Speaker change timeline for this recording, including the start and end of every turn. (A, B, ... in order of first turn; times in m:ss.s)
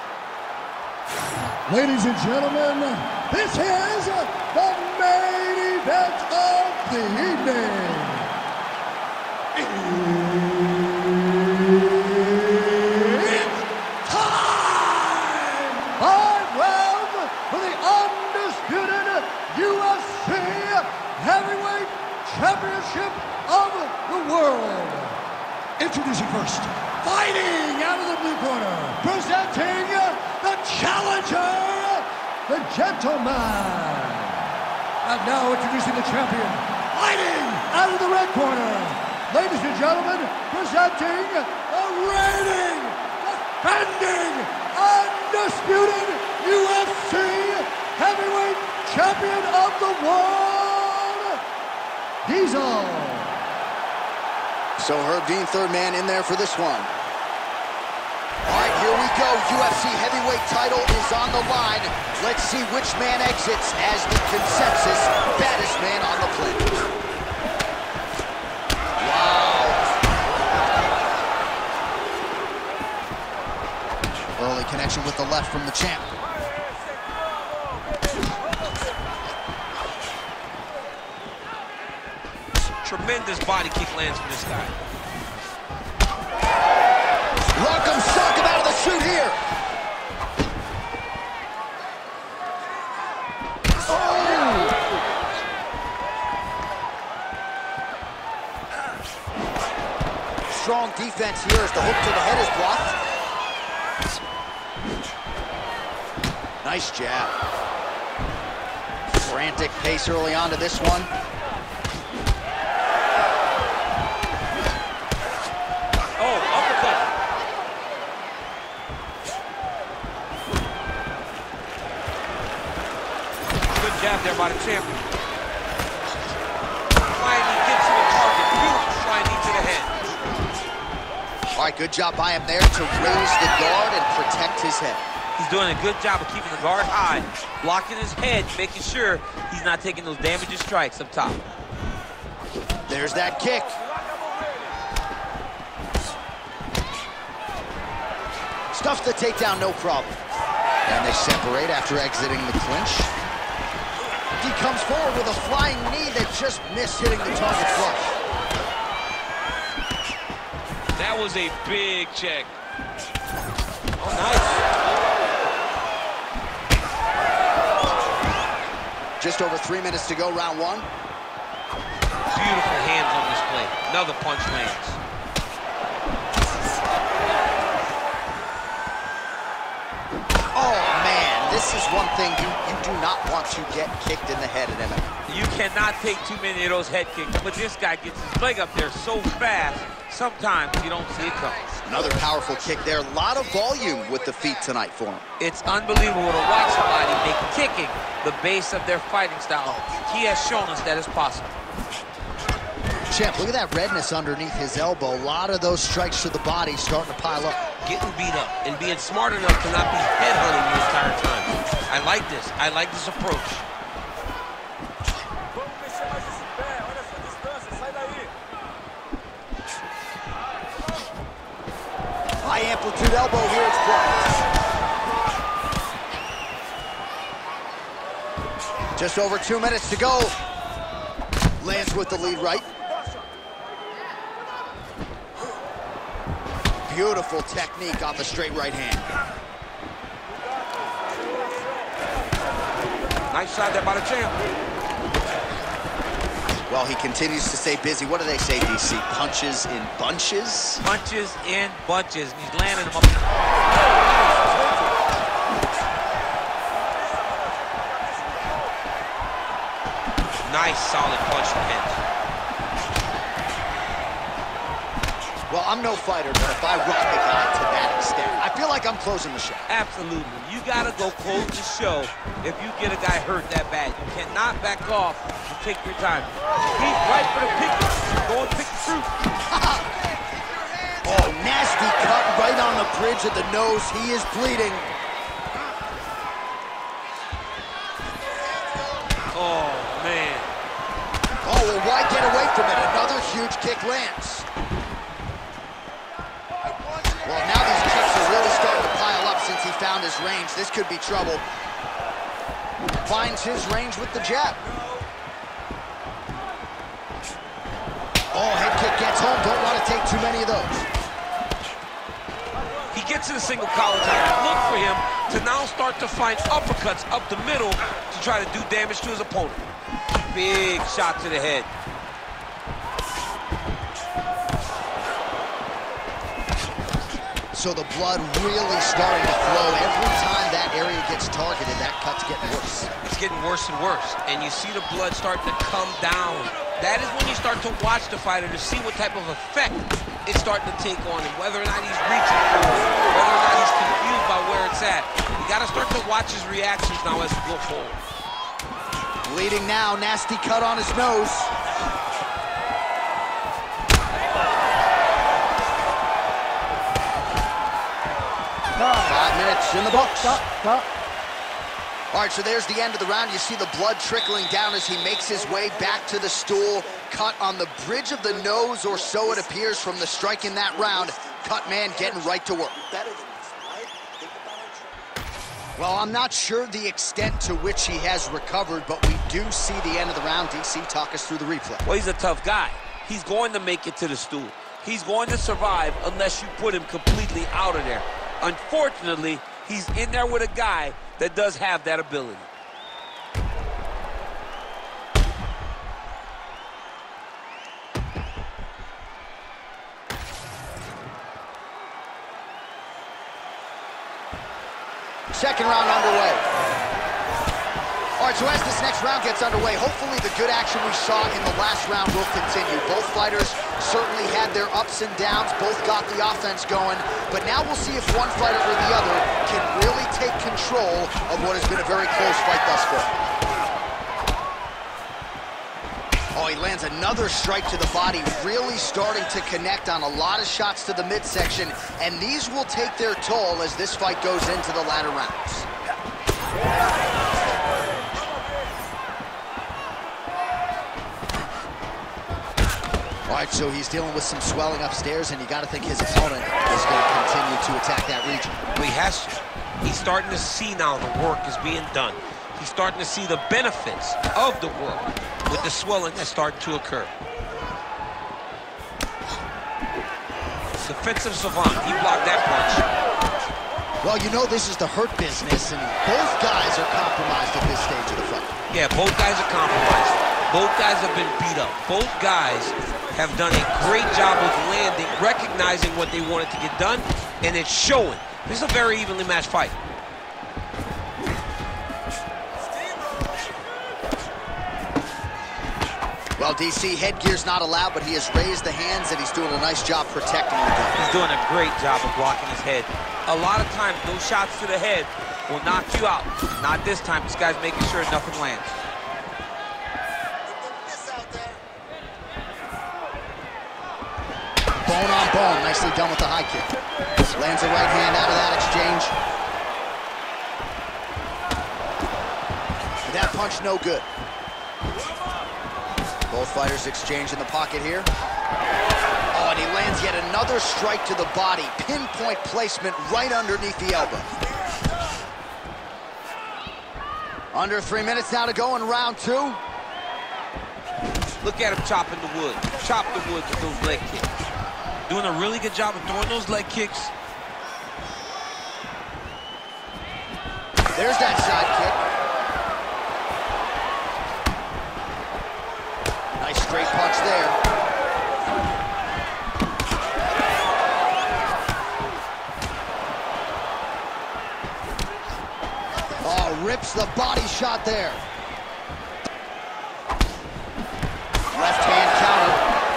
0:01.6-0:08.3 A
0:09.5-0:25.2 A
0:25.8-0:34.5 A
0:35.0-0:51.4 A
0:52.2-0:53.4 A
0:54.8-0:56.9 B
0:58.4-1:06.7 B
1:09.0-1:09.8 B
1:14.4-1:16.1 B
1:22.8-1:24.7 C
1:27.5-1:29.4 B
1:33.8-1:34.8 B
1:40.5-1:42.9 B
1:46.6-1:47.4 B
1:49.2-1:51.1 B
1:56.2-1:57.0 C
2:03.7-2:04.9 C
2:07.1-2:10.0 C
2:11.5-2:15.0 B
2:15.4-2:21.4 C
2:22.9-2:23.8 B
2:28.7-2:30.2 B
2:30.9-2:33.1 B
2:34.4-2:38.1 B
2:41.0-2:42.5 C
2:44.0-2:44.6 C
2:49.2-2:50.9 B
2:52.3-2:55.0 C
3:00.5-3:05.1 B
3:05.3-3:11.6 C
3:11.8-3:15.2 B
3:15.4-3:21.6 C
3:23.1-3:27.6 B
3:27.8-3:33.6 C
3:42.4-3:44.4 B
3:49.0-3:50.3 B
3:51.6-3:52.6 B
3:56.9-3:59.1 B
4:03.3-4:04.4 C
4:06.7-4:10.8 B
4:10.8-4:13.1 C
4:20.4-4:22.0 C
4:25.5-4:29.6 B
4:29.7-4:39.1 C
4:39.5-4:39.9 B
4:41.0-4:44.9 B
4:49.3-4:50.5 C
4:51.4-4:54.4 B
4:57.2-5:01.4 B
5:03.0-5:04.6 B
5:08.3-5:10.8 B
5:12.9-5:19.7 C
5:20.3-5:21.7 C
5:27.5-5:32.9 B
5:33.0-5:48.0 C
5:49.2-5:51.5 B
5:58.9-6:00.5 B
6:02.1-6:12.8 B
6:15.8-6:21.8 B
6:21.8-6:32.5 C
6:45.3-6:46.4 B
6:48.2-7:03.1 B
7:06.3-7:15.7 B
7:23.3-7:28.5 B
7:28.7-7:37.1 C
7:40.8-7:42.8 C
7:44.0-7:48.5 B
7:48.7-7:59.8 C
8:06.4-8:11.0 B
8:11.0-8:18.8 C
8:24.8-8:26.7 B
8:27.2-8:29.1 B
8:33.0-8:34.0 B
8:36.3-8:38.1 B
8:39.3-8:44.3 B
8:47.5-8:49.6 B
8:51.4-8:54.3 C
8:55.0-8:57.1 C
9:00.9-9:02.0 B
9:06.4-9:07.6 B
9:16.2-9:18.2 B
9:21.5-9:22.6 B